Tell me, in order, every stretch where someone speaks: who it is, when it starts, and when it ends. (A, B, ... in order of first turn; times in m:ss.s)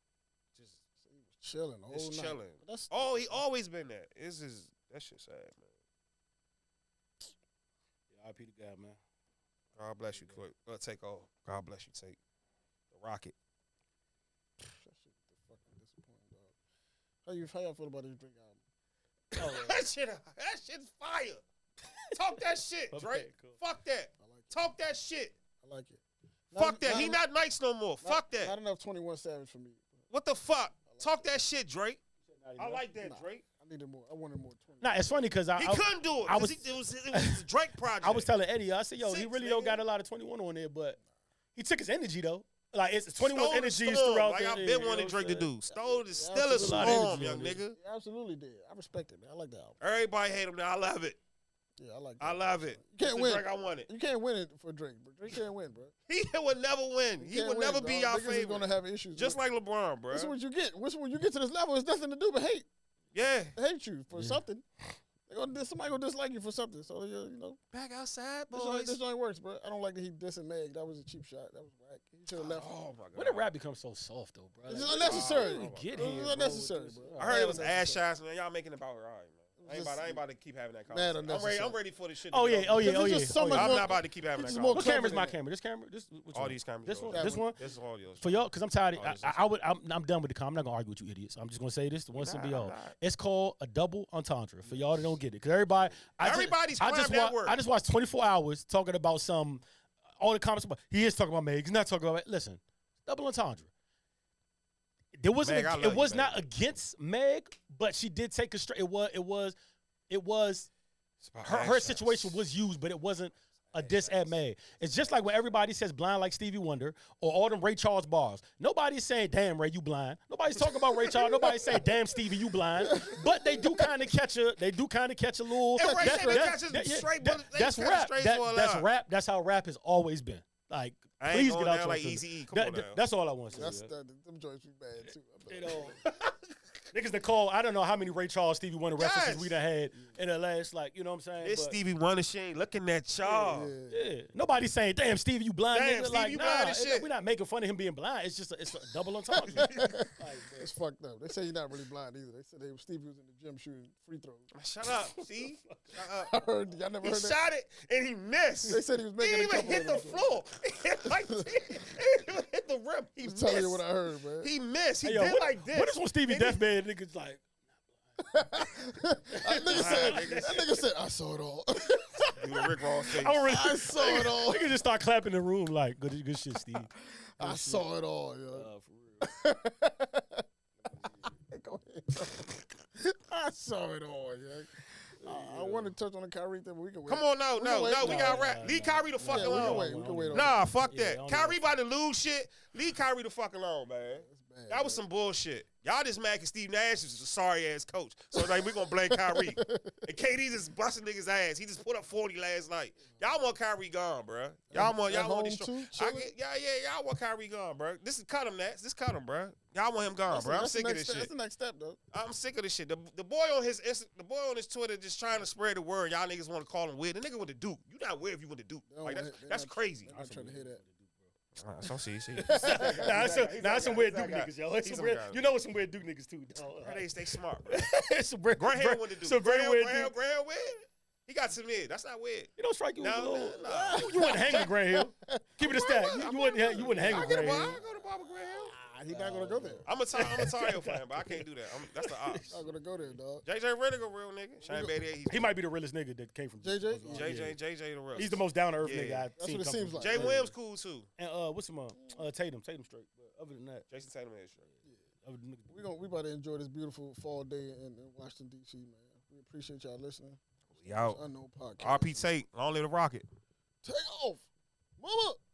0:00.5-0:00.8 A
0:01.0-0:03.4 B
0:01.9-0:05.7 A
0:08.1-0:09.0 C
0:09.8-0:12.2 A
0:12.9-0:13.3 A
0:14.6-0:16.5 B
0:17.2-0:18.6 B
0:19.3-0:21.4 A
0:19.4-0:19.8 C
0:22.1-0:25.3 A
0:22.9-0:23.6 C
0:24.2-0:24.5 B
0:25.6-0:27.2 B
0:26.5-0:28.5 A
0:28.0-0:30.0 B
0:30.1-0:32.0 A
0:30.9-0:31.4 B
0:32.2-0:32.8 C
0:32.6-0:33.4 A
0:33.0-0:35.2 B
0:34.8-0:37.4 C
0:35.6-0:38.3 A
0:38.0-0:41.0 C
0:39.0-0:39.8 A
0:41.5-0:45.5 C
0:43.2-0:47.8 A
0:45.7-0:47.2 B
0:46.5-0:47.6 C
0:47.7-0:49.8 B
0:49.8-0:51.2 A
0:51.8-0:55.9 B
0:52.2-0:53.9 A
0:56.1-1:00.3 A
0:57.2-0:59.4 B
1:00.1-1:02.7 B
1:03.1-1:03.6 A
1:03.6-1:04.6 B
1:04.1-1:04.4 C
1:05.2-1:07.6 B
1:07.7-1:09.0 A
1:08.5-1:12.7 B
1:12.3-1:13.5 A
1:13.1-1:18.0 C
1:14.7-1:17.8 B
1:14.8-1:16.0 A
1:17.2-1:25.2 A
1:19.6-1:20.2 B
1:20.9-1:21.8 B
1:22.3-1:27.6 C
1:22.8-1:25.3 B
1:26.3-1:29.5 A
1:27.1-1:27.5 B
1:28.2-1:39.6 C
1:32.2-1:33.0 A
1:34.6-1:35.2 A
1:36.1-1:37.6 A
1:40.2-1:43.7 C
1:45.2-1:49.6 C
1:45.4-1:46.4 A
1:50.1-1:50.7 C
1:51.2-1:52.4 A
1:51.4-2:13.9 C
1:53.7-1:55.3 A
2:01.1-2:01.6 A
2:02.8-2:03.9 B
2:05.8-2:08.9 A
2:05.8-2:06.5 B
2:11.2-2:13.0 A
2:13.5-2:15.9 B
2:15.5-2:16.3 C
2:16.9-2:21.8 C
2:19.0-2:19.6 A
2:21.4-2:23.7 A
2:23.2-2:24.0 B
2:23.9-2:30.7 C
2:25.7-2:27.1 A
2:29.3-2:34.5 B
2:29.6-2:29.9 A
2:34.5-2:36.4 A
2:35.1-2:36.0 C
2:36.3-2:37.4 B
2:37.0-2:43.8 A
2:38.7-2:40.4 B
2:41.0-2:41.8 B
2:43.2-2:44.5 B
2:44.4-2:46.6 A
2:45.0-2:47.4 C
2:48.3-2:50.6 C
2:48.3-2:54.7 B
2:49.7-2:50.7 A
2:52.4-2:53.5 A
2:53.1-2:57.8 C
2:56.7-2:58.7 B
2:58.5-2:59.3 C
2:59.2-3:00.4 B
3:00.9-3:01.3 C
3:01.2-3:08.4 B
3:05.2-3:05.9 C
3:07.1-3:31.3 A
3:08.0-3:11.6 C
3:09.3-3:10.7 B
3:14.1-3:15.0 B
3:18.3-3:20.0 B
3:24.7-3:26.3 B
3:30.3-3:32.0 B
3:32.1-3:40.1 A
3:38.9-3:40.8 B
3:40.1-3:41.3 C
3:41.5-3:45.5 A
3:42.4-3:47.0 C
3:42.4-3:43.3 B
3:46.8-3:47.9 A
3:47.7-3:50.1 C
3:48.6-3:54.7 A
3:52.6-3:57.8 C
3:53.6-4:00.3 B
3:55.6-3:58.7 A
3:59.1-4:02.5 C
3:59.8-4:02.6 A
4:02.5-4:03.4 B
4:03.4-4:05.6 A
4:04.6-4:04.9 B
4:05.3-4:07.6 C
4:06.6-4:07.4 B
4:07.1-4:09.3 A
4:08.1-4:10.5 C
4:09.4-4:10.4 B
4:10.0-4:11.1 A
4:11.2-4:13.8 C
4:13.9-4:14.7 A
4:15.2-4:15.8 C
4:15.7-4:22.3 B
4:20.7-4:21.2 A
4:21.8-4:23.2 A
4:23.8-4:24.5 B
4:25.0-4:25.4 B